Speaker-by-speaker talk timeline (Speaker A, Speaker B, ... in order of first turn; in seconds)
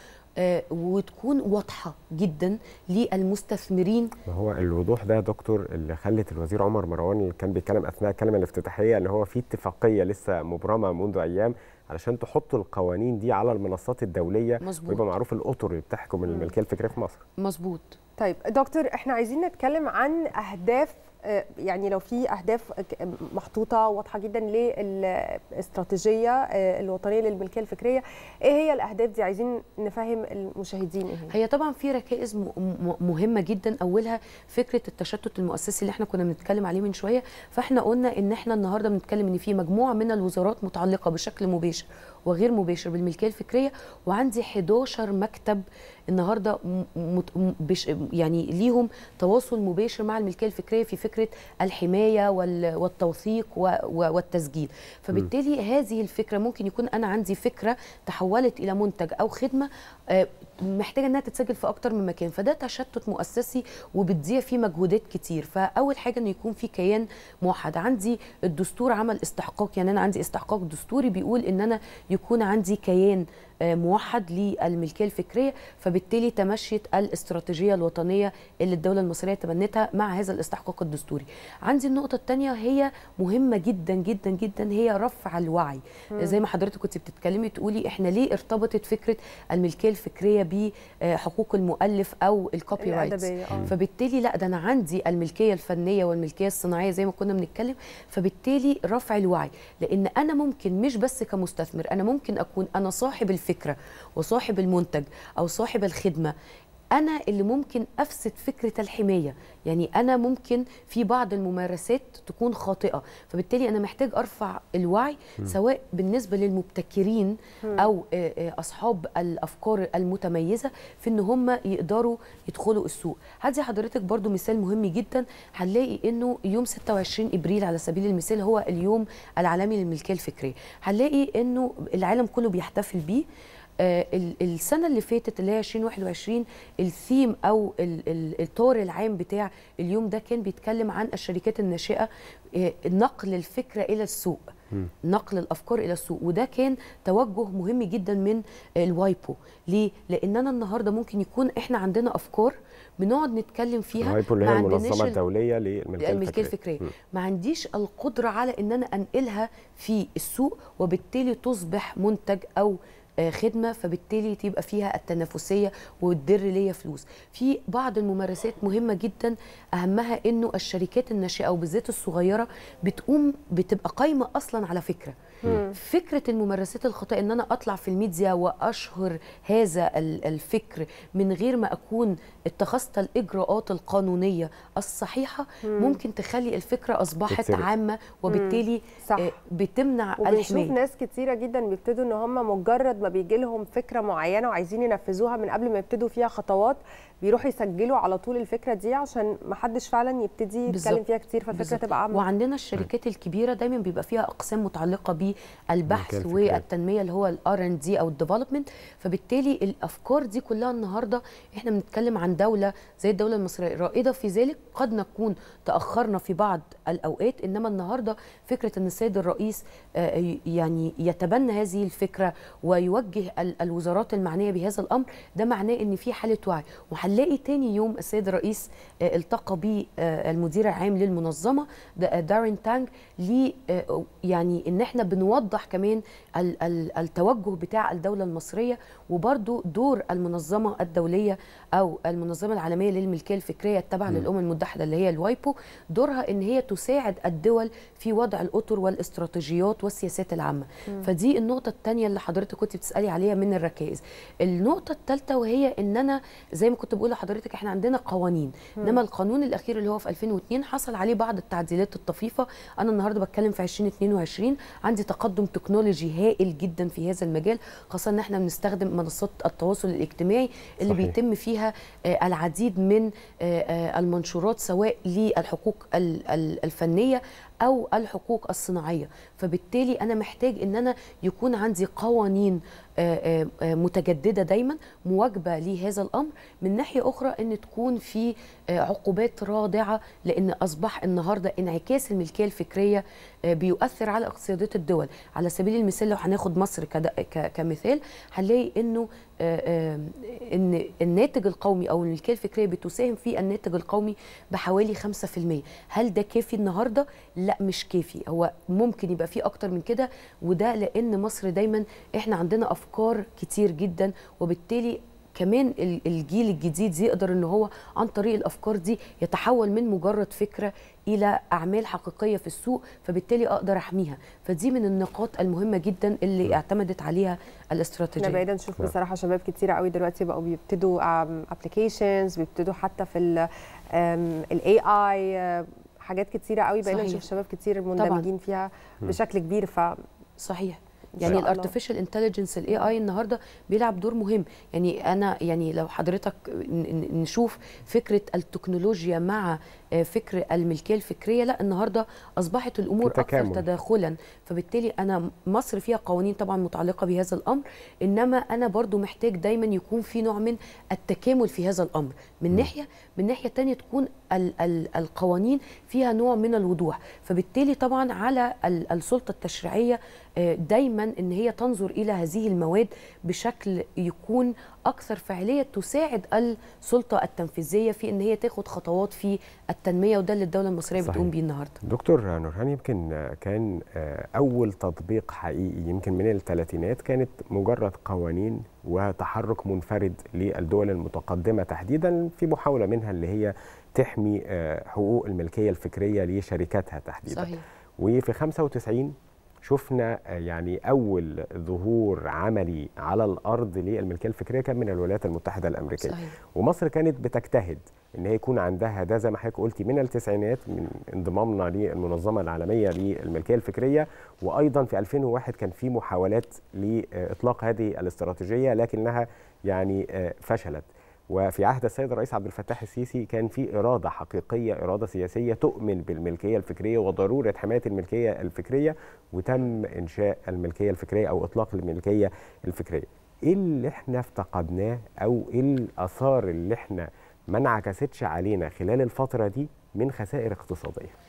Speaker A: 0.4-4.1, 14.6-15.0, 17.4-18.0, 31.3-106.3, 107.0-133.2, 133.8-144.4, 145.0-155.2, 156.0-190.7, 200.7-201.0, 201.5-328.4, 336.9-337.2, 338.0-338.3, 340.4-381.8, 397.2-397.6, 406.0-406.4
Speaker B: 4.3-17.2, 154.0-156.9, 187.3-187.7, 205.9-206.6, 270.9-271.1, 353.0-353.6, 381.0-381.3, 381.8-399.1, 399.6-441.1
Speaker C: 16.2-16.5, 18.2-31.3, 92.8-93.7, 175.5-175.7, 185.7-186.0, 188.3-189.3, 190.2-202.2, 328.2-339.9, 341.2-341.7